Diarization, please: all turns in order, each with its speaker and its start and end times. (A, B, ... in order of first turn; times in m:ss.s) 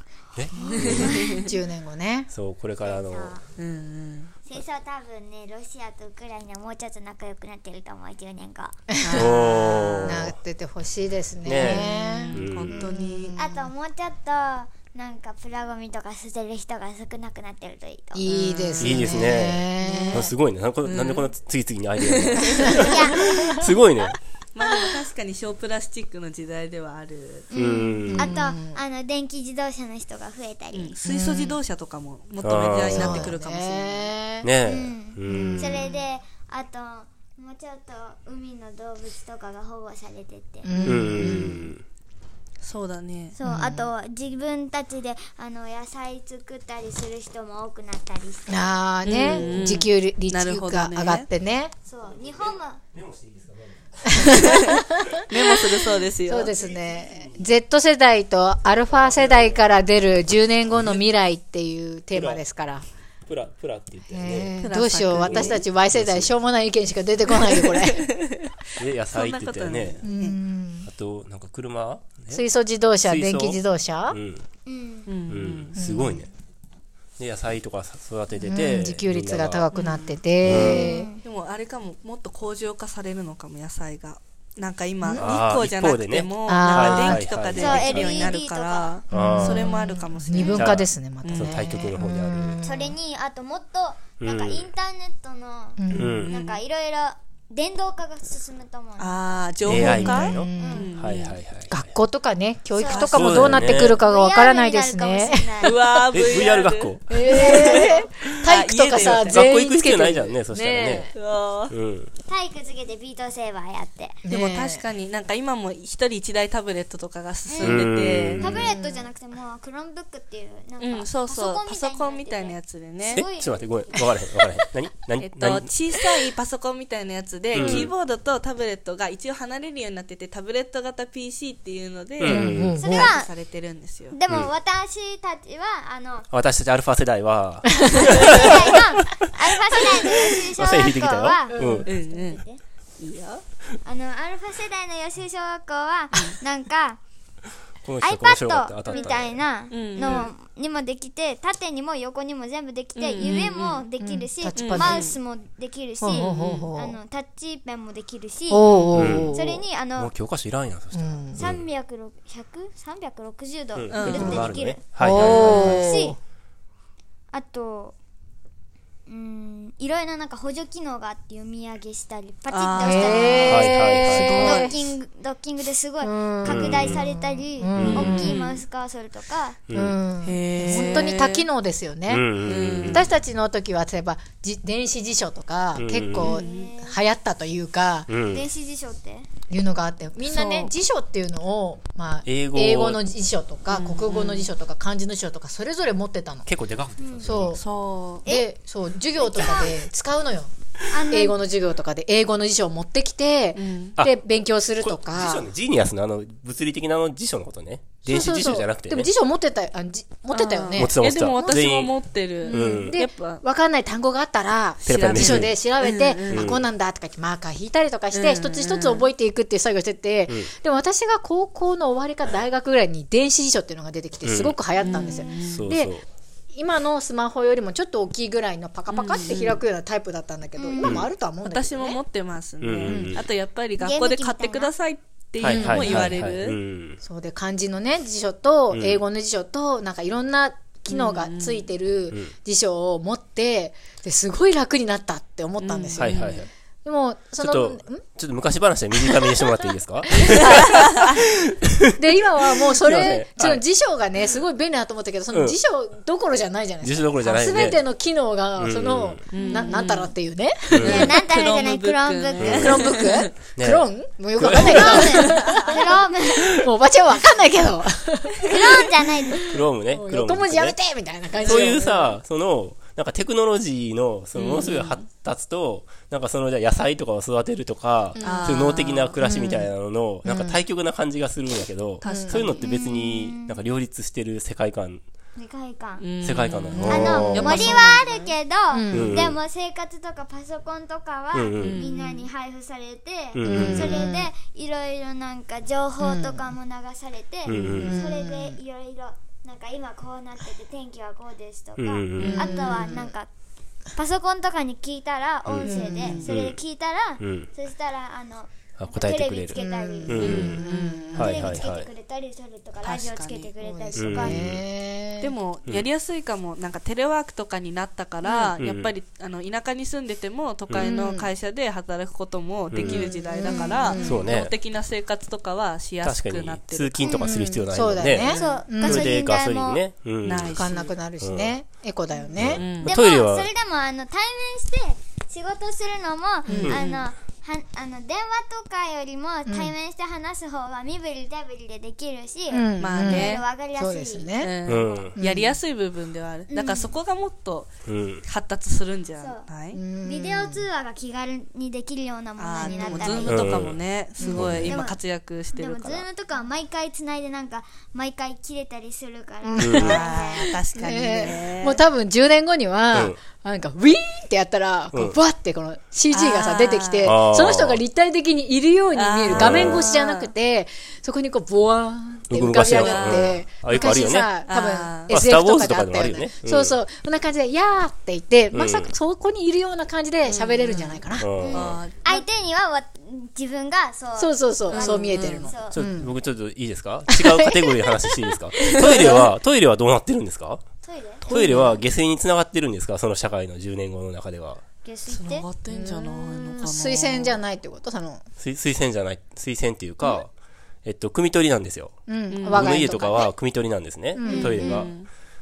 0:00.3-0:01.2 A
0:00.5-0:01.5 B
0:00.6-0:01.5 C
0:01.4-0:02.3 D
0:02.3-0:03.4 A
0:02.8-0:03.4 B
0:03.6-0:04.3 C
0:04.5-0:08.8 B
0:08.9-0:13.7 D
0:09.0-0:10.2 C
0:09.1-0:10.3 A
0:11.4-0:12.9 A
0:11.5-0:13.3 C
0:13.3-0:18.3 B
0:18.1-0:20.3 D
0:18.3-0:19.2 C
0:18.8-0:24.2 A
0:19.8-0:20.2 C
0:20.8-0:21.3 C
0:22.0-0:23.5 C
0:22.6-0:23.5 D
0:22.8-0:23.7 B
0:24.5-0:27.5 C
0:27.5-0:30.9 B
0:27.5-0:28.4 A
0:28.0-0:28.8 D
0:30.7-0:34.1 C
0:31.0-0:31.6 D
0:32.4-0:33.3 A
0:32.9-0:34.5 D
0:34.4-0:35.9 A
0:34.6-0:40.7 B
0:35.3-0:35.8 D
0:40.6-0:41.7 D
0:40.8-0:41.7 C
0:40.8-0:41.8 A
0:42.6-0:43.4 C
0:43.3-0:48.7 B
0:43.4-0:43.9 D
0:48.5-0:51.7 D
0:49.0-0:51.3 C
0:51.9-0:52.8 B
0:52.9-0:54.4 A
0:54.0-0:55.3 D
0:54.2-0:56.5 C
0:56.2-1:02.8 D
0:59.0-0:59.6 A
1:02.1-1:02.4 A
1:03.3-1:04.5 A
1:04.1-1:08.1 D
1:04.6-1:05.6 C
1:05.1-1:06.3 A
1:07.4-1:08.5 C
1:08.8-1:10.0 A
1:09.1-1:10.4 C
1:10.0-1:10.9 D
1:10.8-1:12.4 A
1:12.3-1:14.2 D
1:13.0-1:14.4 A
1:14.6-1:15.1 B
1:15.1-1:15.7 C
1:15.3-1:16.3 A
1:15.8-1:16.2 D
1:17.2-1:19.7 A
1:18.4-1:21.1 D
1:19.7-1:31.6 C
1:20.4-1:20.9 A
1:20.5-1:21.2 B
1:25.0-1:25.3 D
1:25.2-1:28.3 A
1:26.5-1:27.2 D
1:27.5-1:29.0 B
1:29.1-1:29.8 A
1:29.1-1:32.9 D
1:30.4-1:30.7 B
1:30.5-1:32.6 A
1:32.6-1:35.8 B
1:34.2-1:34.7 A
1:35.8-1:36.2 D
1:35.9-1:36.3 A
1:35.9-1:36.6 C
1:36.3-1:39.3 B
1:39.0-1:41.4 C
1:39.6-1:41.8 A
1:39.7-1:40.9 D
1:40.6-1:40.9 B
1:41.7-1:45.7 D
1:42.8-1:45.8 B
1:42.9-1:43.5 C
1:43.1-1:44.0 A
1:45.6-1:49.5 C
1:46.1-1:47.5 A
1:47.1-1:51.1 D
1:47.2-1:48.1 B
1:49.0-1:51.1 A
1:51.1-1:51.7 C
1:51.7-1:52.1 A
1:52.3-1:54.2 B
1:54.2-1:54.8 D
1:54.3-1:58.9 C
1:57.5-2:04.0 B
1:57.6-1:58.7 A
2:00.8-2:03.2 C
2:03.1-2:05.7 A
2:05.2-2:14.1 C
2:07.5-2:07.9 A
2:07.5-2:07.9 B
2:12.2-2:12.8 A
2:12.2-2:13.1 D
2:12.8-2:13.3 B
2:14.1-2:16.3 B
2:16.3-2:18.9 A
2:18.0-2:22.6 B
2:18.2-2:18.5 C
2:19.8-2:21.9 A
2:21.5-2:21.9 D
2:21.8-2:22.4 C
2:23.0-2:23.4 C
2:23.8-2:27.0 B
2:27.8-2:29.4 A
2:28.0-2:38.7 B
2:29.7-2:30.3 C
2:33.0-2:33.8 C
2:34.0-2:35.1 D
2:34.5-2:35.2 C
2:36.0-2:37.0 D
2:36.1-2:36.7 C
2:38.5-2:39.6 D
2:38.7-2:39.3 C
2:38.9-2:39.3 A
2:39.3-2:40.1 B
2:40.0-2:41.6 A
2:40.9-2:41.4 D
2:41.4-2:46.2 B
2:43.8-2:45.9 A
2:43.9-2:44.5 C
2:44.2-2:44.4 D
2:45.0-2:46.2 D
2:45.2-2:46.0 C
2:47.3-2:47.9 B
2:49.1-2:59.6 B
2:52.5-2:53.7 C
2:52.8-2:54.8 D
2:53.5-2:54.7 A
2:54.2-2:54.7 C
2:56.0-2:58.3 D
2:56.4-2:57.1 A
2:57.7-2:58.3 A
2:57.9-2:58.6 C
2:59.7-3:00.0 A
2:59.7-3:08.1 D
3:00.2-3:01.5 C
3:00.8-3:01.1 B
3:02.1-3:03.1 A
3:02.4-3:03.1 C
3:05.8-3:06.4 A
3:06.2-3:06.7 C
3:06.2-3:07.0 B
3:08.1-3:08.5 A
3:08.3-3:09.3 B
3:09.5-3:16.5 D
3:10.2-3:10.7 C
3:12.2-3:13.0 A
3:13.7-3:14.5 C
3:16.4-3:17.6 A
3:17.0-3:17.3 B
3:17.2-3:17.6 D
3:17.6-3:18.2 C
3:18.2-3:20.5 D
3:19.2-3:19.7 B
3:20.9-3:21.3 B
3:21.1-3:25.5 D
3:23.5-3:24.0 C
3:24.8-3:29.1 A
3:28.0-3:31.7 D
3:30.3-3:33.4 C
3:30.8-3:31.9 A
3:32.4-3:46.0 D
3:32.5-3:32.9 A
3:34.8-3:35.6 A
3:34.9-3:36.6 C
3:36.3-3:36.6 A
3:38.1-3:39.1 C
3:44.2-3:44.6 A
3:44.8-3:45.6 C
3:45.3-3:46.0 A
3:46.5-3:52.0 D
3:48.9-3:49.6 C
3:50.6-3:51.0 B
3:50.8-3:51.1 A
3:51.4-3:56.6 C
3:52.6-3:53.2 A
3:52.8-3:53.2 D
3:53.8-3:54.7 B
3:55.4-3:57.0 A
3:55.4-3:56.2 D
3:57.0-4:08.0 D
3:58.7-3:59.0 A
4:00.9-4:01.7 C
4:05.6-4:06.4 C
4:06.0-4:06.5 A
4:07.4-4:12.0 A
4:10.1-4:10.9 D
4:10.6-4:11.1 C
4:11.9-4:21.1 D
4:12.6-4:13.6 A
4:15.3-4:15.6 A
4:16.8-4:17.8 A
4:18.6-4:19.2 A
4:19.3-4:20.1 C
4:19.4-4:19.8 B
4:20.7-4:21.1 A
4:20.8-4:23.3 C
4:20.8-4:23.0 B
4:22.4-4:23.0 A
4:22.5-4:25.8 D
4:23.6-4:25.4 A
4:24.6-4:26.6 B
4:25.0-4:25.7 C
4:26.5-4:32.0 D
4:28.4-4:29.4 B
4:29.5-4:30.8 A
4:31.3-4:32.1 C
4:31.4-4:45.0 A
4:34.3-4:35.0 C
4:38.1-4:38.6 D
4:38.2-4:39.2 C
4:39.2-4:39.7 D
4:40.2-4:40.6 D
4:42.0-4:42.6 C
4:42.0-4:42.4 D
4:42.6-4:43.6 B
4:45.4-4:46.1 B
4:46.0-4:48.3 C
4:46.2-4:47.8 A
4:46.7-4:47.6 D
4:46.9-5:03.3 B
4:48.7-4:49.2 D
4:48.9-4:49.4 A
4:51.3-4:51.9 A
4:51.6-4:52.3 C
4:53.3-4:54.1 A
4:53.4-4:54.2 D
4:56.0-4:56.4 D
4:57.4-4:57.9 A
4:57.5-4:57.9 C
4:57.8-4:58.6 D
5:01.8-5:02.5 A
5:02.2-5:03.0 C
5:02.2-5:03.1 D
5:03.9-5:10.5 B
5:05.4-5:06.6 A
5:05.6-5:06.3 C
5:05.7-5:06.2 D
5:07.2-5:07.5 A
5:08.8-5:10.6 A
5:09.6-5:11.5 D
5:10.2-5:11.5 C
5:11.1-5:14.4 B
5:11.2-5:11.9 A
5:12.8-5:13.5 C
5:13.6-5:15.3 D
5:14.0-5:14.6 A
5:15.2-5:27.3 C
5:18.6-5:18.9 A
5:20.8-5:21.3 D
5:22.7-5:23.1 A
5:22.8-5:24.3 D
5:23.4-5:24.0 B
5:24.0-5:24.5 A
5:26.0-5:30.6 A
5:27.0-5:27.5 B
5:27.3-5:29.1 D
5:28.2-5:28.6 C
5:28.3-5:29.8 B
5:30.2-5:30.9 C
5:30.5-5:32.8 D
5:31.2-5:31.5 A
5:32.4-5:33.5 A
5:32.4-5:32.9 C
5:32.8-5:45.0 B
5:36.5-5:37.0 C
5:39.5-5:39.7 D
5:42.5-5:44.5 D
5:42.8-5:43.4 C
5:44.4-5:49.8 C
5:44.6-5:45.2 A
5:45.2-5:45.6 D
5:46.5-5:46.9 B
5:47.8-5:48.2 A
5:49.2-5:49.4 B
5:49.7-5:50.6 D
5:50.0-5:53.7 B
5:52.4-5:56.0 C
5:52.6-5:53.2 D
5:53.2-5:54.8 A
5:54.2-5:55.0 B
5:55.5-6:00.6 B
5:59.4-6:00.0 D
5:59.6-6:00.0 A
5:59.8-6:01.8 C
6:00.8-6:21.3 D
6:02.9-6:03.2 A
6:06.1-6:07.2 C
6:07.0-6:07.8 A
6:08.9-6:10.3 C
6:09.3-6:09.9 A
6:12.3-6:14.3 A
6:12.6-6:15.1 C
6:15.1-6:16.8 A
6:18.5-6:18.9 A
6:20.2-6:22.2 C
6:21.2-6:21.8 A
6:21.4-6:25.8 B
6:24.2-6:26.1 D
6:24.7-6:25.5 C
6:25.7-6:30.6 A
6:27.1-6:28.0 D
6:28.6-6:29.2 C
6:28.6-6:29.2 D
6:30.8-6:31.2 B
6:31.2-6:31.8 C
6:31.2-6:34.6 A
6:34.8-6:35.5 B
6:35.1-6:37.4 C
6:35.7-6:38.2 D
6:38.4-6:40.3 A
6:40.8-6:45.0 A
6:42.1-6:43.3 D
6:42.3-6:42.9 C
6:44.1-6:44.6 D
6:44.2-6:44.9 B
6:44.3-6:45.1 C